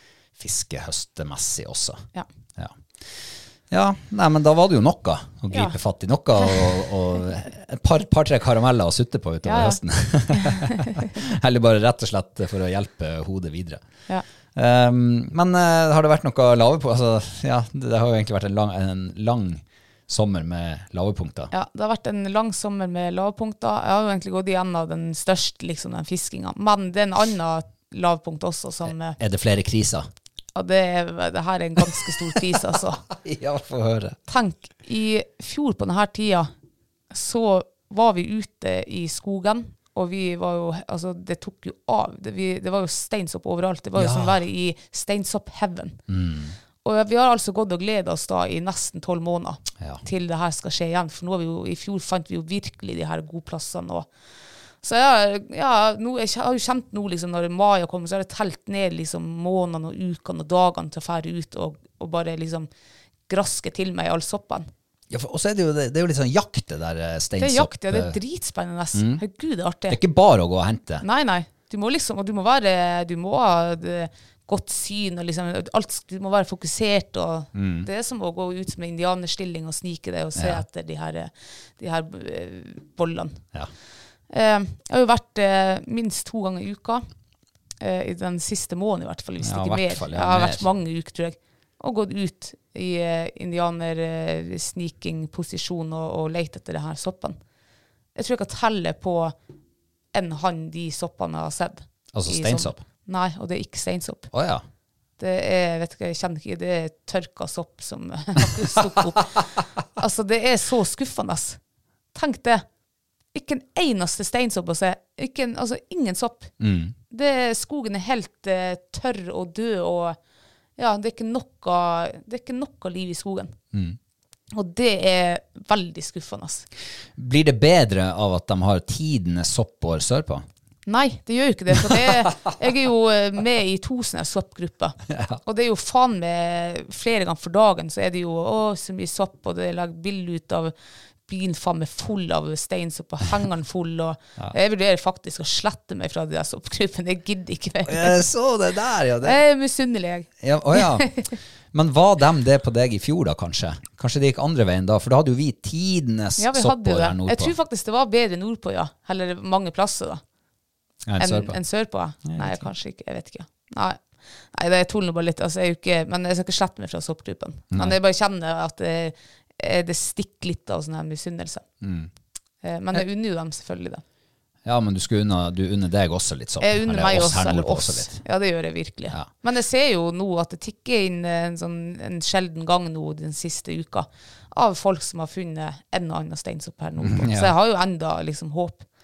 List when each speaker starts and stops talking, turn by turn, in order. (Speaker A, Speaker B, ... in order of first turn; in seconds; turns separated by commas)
Speaker A: 0.4-2.0, Speaker A: 2.5-13.8, Speaker B: 9.4-9.8, Speaker B: 10.3-11.1, Speaker A: 14.5-21.5, Speaker B: 21.5-29.2, Speaker A: 28.9-30.1, Speaker B: 30.5-33.0, Speaker A: 32.0-34.2, Speaker B: 34.3-36.5, Speaker B: 37.1-46.0, Speaker A: 43.9-44.4, Speaker A: 46.1-46.5, Speaker B: 46.8-54.1, Speaker B: 54.8-62.7, Speaker B: 63.3-64.7, Speaker A: 65.1-68.2, Speaker B: 67.4-70.0, Speaker A: 68.9-69.2, Speaker A: 69.9-71.0, Speaker B: 71.0-83.4, Speaker A: 77.5-77.9, Speaker A: 80.3-80.6, Speaker B: 84.3-87.0, Speaker B: 87.8-97.4, Speaker A: 89.4-90.7, Speaker B: 98.1-99.3, Speaker B: 100.1-104.3, Speaker A: 102.1-102.8, Speaker A: 104.3-104.6, Speaker B: 105.2-109.4, Speaker B: 110.0-111.6, Speaker B: 112.1-112.6, Speaker B: 113.3-116.5, Speaker A: 116.6-116.9, Speaker B: 117.1-120.2, Speaker B: 120.8-123.5, Speaker B: 124.5-126.7, Speaker A: 127.2-130.4, Speaker B: 130.8-140.7, Speaker A: 131.7-132.3, Speaker A: 135.1-135.4, Speaker B: 141.3-148.2, Speaker A: 147.8-149.4, Speaker B: 149.2-151.2, Speaker A: 150.4-157.5, Speaker B: 156.4-160.2, Speaker A: 161.0-161.6, Speaker B: 161.2-171.6, Speaker A: 162.2-162.7, Speaker A: 167.7-167.9, Speaker A: 171.8-172.1, Speaker B: 172.6-174.0, Speaker A: 174.6-178.2, Speaker B: 176.6-188.8, Speaker A: 187.0-187.5